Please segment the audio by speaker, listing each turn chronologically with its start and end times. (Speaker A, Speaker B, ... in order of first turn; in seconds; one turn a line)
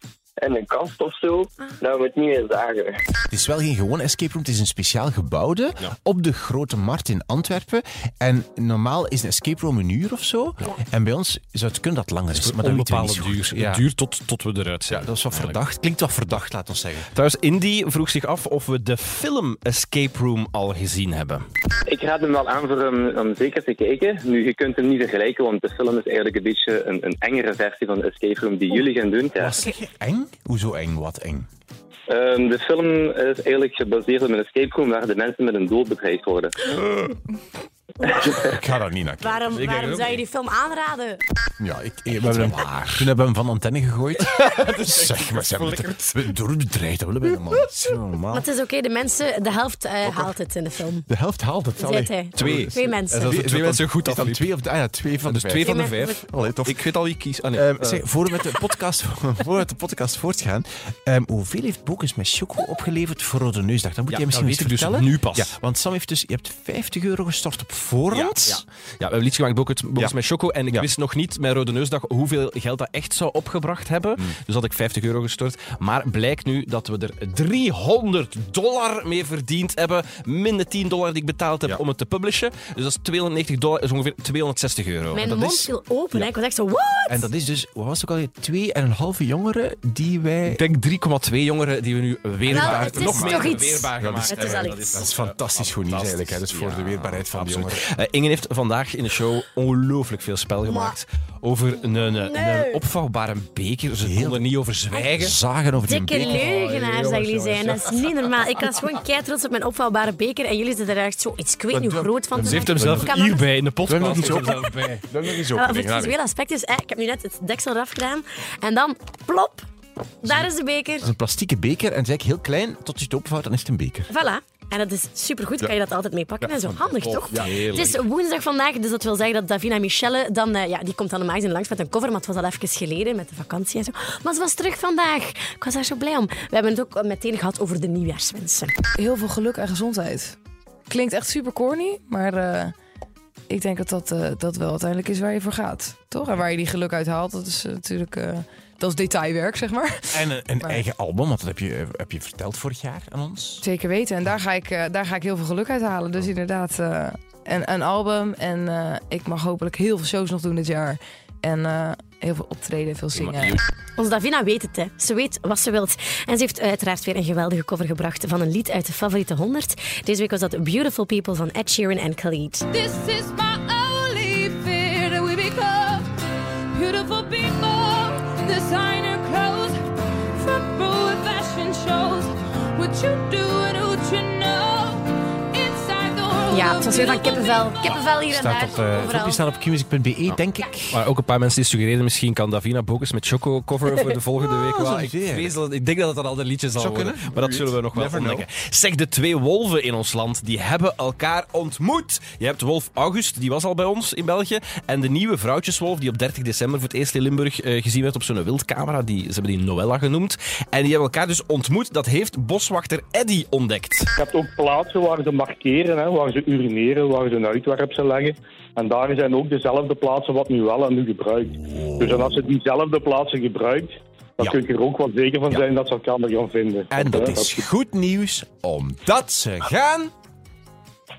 Speaker A: 0.4-3.0
Speaker B: 3.3-13.8
Speaker C: 12.3-15.6
Speaker B: 14.9-17.1
Speaker C: 17.1-21.4
Speaker D: 21.9-29.6
Speaker B: 29.4-31.5
Speaker D: 32.1-36.5
Speaker B: 38.2-39.5
Speaker E: 39.2-41.2
Speaker C: 39.5-40.2
Speaker B: 41.6-48.5
Speaker C: 42.3-43.1
Speaker C: 44.2-46.2
Speaker E: 48.3-51.0
Speaker B: 51.1-56.8
Speaker E: 51.8-53.2
Speaker C: 52.4-54.5
Speaker C: 55.3-58.2
Speaker E: 55.6-56.2
Speaker B: 57.5-68.6
Speaker C: 64.1-65.5
Speaker C: 68.1-85.2
Speaker E: 85.1-87.3
Speaker B: 85.2-85.7
Speaker B: 87.1-90.6
Speaker C: 90.5-105.3
Speaker B: 92.4-97.8
Speaker E: 92.5-95.0
Speaker E: 100.7-101.0
Speaker E: 102.1-102.8
Speaker B: 103.9-104.5
Speaker B: 105.1-106.5
Speaker E: 105.9-113.5
Speaker C: 106.2-107.8
Speaker B: 111.7-113.2
Speaker C: 112.4-115.0
Speaker B: 113.8-116.2
Speaker E: 115.3-119.7
Speaker E: 120.2-121.1
Speaker B: 120.2-120.5
Speaker B: 121.0-124.1
Speaker E: 124.1-138.7
Speaker B: 126.4-127.8
Speaker C: 127.0-128.0
Speaker F: 139.0-140.4
Speaker F: 140.9-142.7
Speaker F: 143.5-150.8
Speaker B: 150.1-153.6
Speaker F: 153.6-163.6
Speaker C: 163.2-163.6
Speaker E: 164.0-172.7
Speaker G: 172.7-176.1
Speaker G: 176.7-188.8
Speaker E: 186.5-189.4
Speaker B: 188.3-191.0
Speaker C: 190.9-214.1
Speaker B: 194.5-195.5
Speaker B: 196.8-198.5
Speaker H: 214.2-227.7
Speaker B: 221.5-222.4
Speaker B: 226.9-230.1